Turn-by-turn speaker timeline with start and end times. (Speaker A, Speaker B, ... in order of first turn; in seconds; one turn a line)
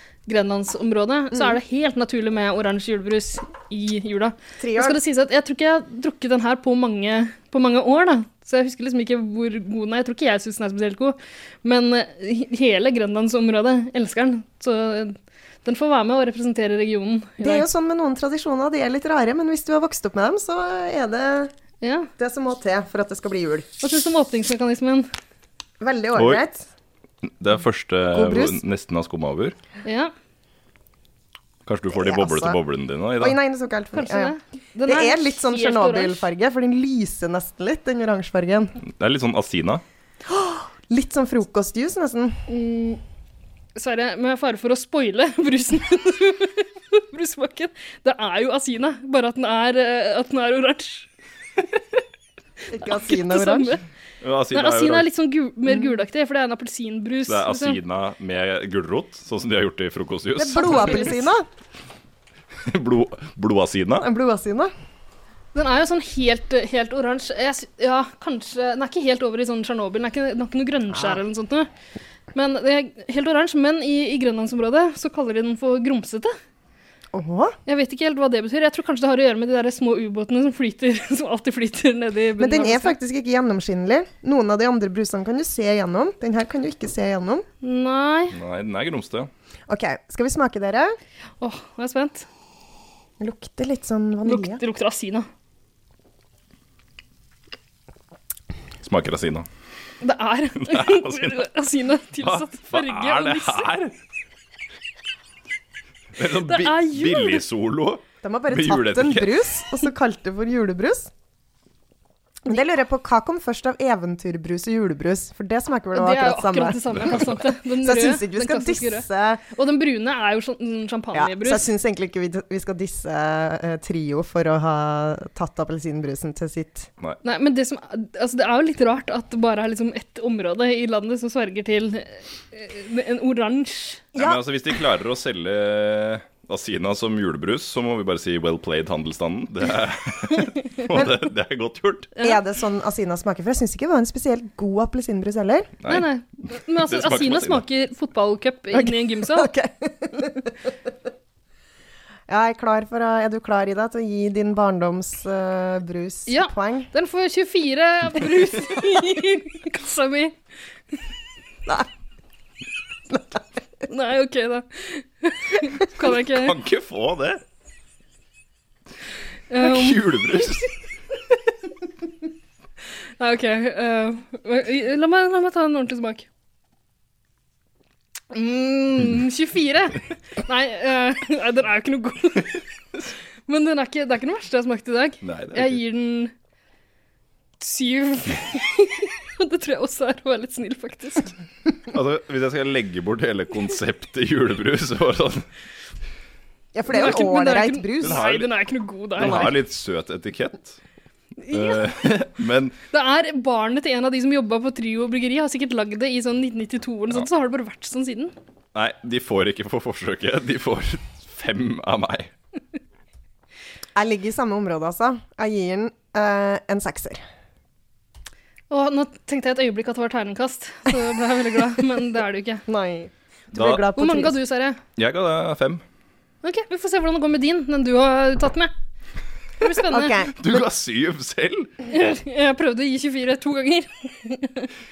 Speaker A: 0.3-17.7
Speaker B: 4.6-5.0
Speaker B: 17.4-21.5
Speaker A: 21.8-22.1
Speaker B: 22.2-23.7
Speaker A: 23.8-25.1
Speaker B: 25.8-26.7
Speaker C: 26.2-26.4
Speaker C: 27.2-29.6
Speaker B: 28.1-28.6
Speaker A: 29.9-30.1
Speaker C: 31.7-33.4
Speaker B: 31.9-32.6
Speaker B: 33.2-34.3
Speaker A: 33.9-36.3
Speaker B: 34.9-38.8
Speaker C: 38.8-39.8
Speaker B: 40.3-42.4
Speaker A: 42.5-43.0
Speaker A: 43.8-51.1
Speaker B: 52.7-53.8
Speaker A: 52.8-53.8
Speaker C: 54.2-55.1
Speaker A: 54.5-57.8
Speaker C: 57.3-61.2
Speaker B: 60.4-61.5
Speaker C: 62.7-64.1
Speaker B: 64.0-64.7
Speaker A: 65.5-71.7
Speaker B: 70.9-71.2
Speaker A: 72.3-76.3
Speaker B: 77.1-77.6
Speaker A: 77.7-83.0
Speaker B: 82.4-87.5
Speaker A: 87.6-88.4
Speaker C: 88.3-89.3
Speaker B: 89.7-91.0
Speaker A: 91.4-92.3
Speaker B: 93.2-94.6
Speaker A: 94.2-95.3
Speaker C: 98.8-99.5
Speaker A: 100.0-103.7
Speaker C: 100.6-101.5
Speaker C: 102.2-103.9
Speaker C: 106.2-109.6
Speaker A: 106.3-107.5
Speaker B: 108.2-111.1
Speaker B: 112.5-119.4
Speaker A: 115.9-121.7
Speaker B: 121.1-126.9
Speaker A: 127.2-134.1
Speaker B: 134.2-134.4
Speaker C: 134.2-142.1
Speaker B: 142.2-145.7
Speaker C: 145.8-147.6
Speaker A: 145.9-149.5
Speaker B: 148.7-150.5
Speaker B: 152.3-156.9
Speaker A: 156.3-160.4
Speaker B: 163.1-163.4
Speaker A: 163.9-166.6
Speaker C: 166.0-167.4
Speaker A: 169.5-170.1
Speaker C: 169.6-170.7
Speaker A: 173.2-176.3
Speaker A: 178.3-182.6
Speaker A: 183.5-186.3
Speaker C: 185.2-185.8
Speaker A: 187.6-191.3
Speaker C: 191.9-195.5
Speaker B: 196.7-198.2
Speaker A: 196.9-199.6
Speaker C: 198.0-198.5
Speaker C: 199.2-200.8
Speaker B: 199.2-199.5
Speaker A: 201.4-201.8
Speaker C: 201.5-202.8
Speaker A: 202.9-208.3
Speaker C: 208.8-212.3
Speaker B: 213.9-217.2
Speaker A: 218.7-222.7
Speaker B: 222.7-224.4
Speaker C: 223.5-223.9
Speaker A: 224.0-224.8
Speaker C: 225.0-225.8
Speaker A: 226.4-228.7
Speaker A: 229.6-230.2
Speaker B: 229.9-230.7
Speaker C: 230.3-231.8
Speaker A: 231.9-234.7